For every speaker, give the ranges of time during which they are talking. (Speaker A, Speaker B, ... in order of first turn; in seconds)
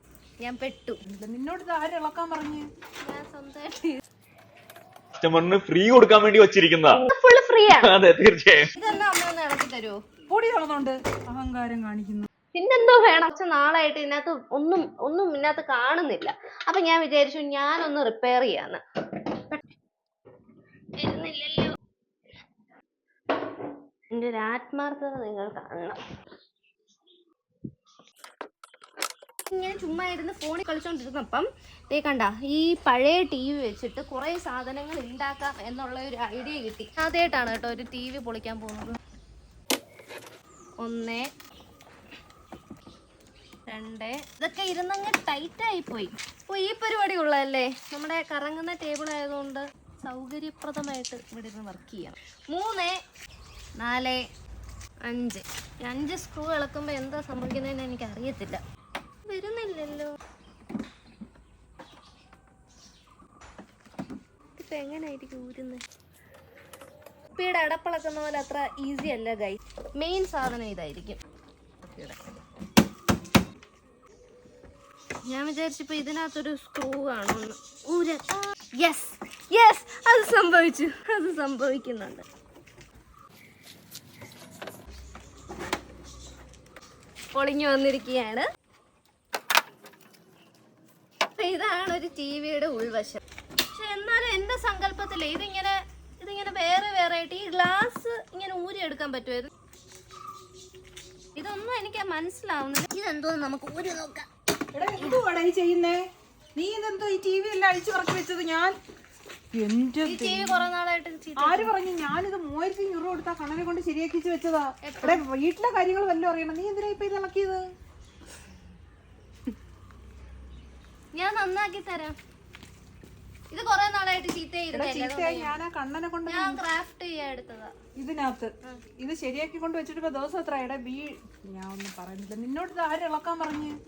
Speaker A: 0.4-1.0, 3.0-4.0, 6.9-7.9, 8.8-10.0, 12.5-18.8, 21.0-21.7, 24.1-26.0, 29.5-39.0, 40.8-41.3, 43.7-53.0, 53.8-54.2, 55.0-58.6, 59.2-60.1, 64.6-65.8, 67.3-71.2, 71.8-72.2, 75.3-82.2, 87.3-88.4, 91.4-93.2, 93.7-99.5, 101.3-104.3, 110.0-111.7, 114.8-115.2, 121.1-122.2, 123.5-125.5, 126.2-127.7
Speaker B: 1.1-2.7, 10.3-12.3, 104.7-106.0, 106.5-108.7, 109.5-110.7, 111.4-117.6, 124.7-126.7, 128.0-133.8
Speaker C: 5.1-7.0, 7.7-8.7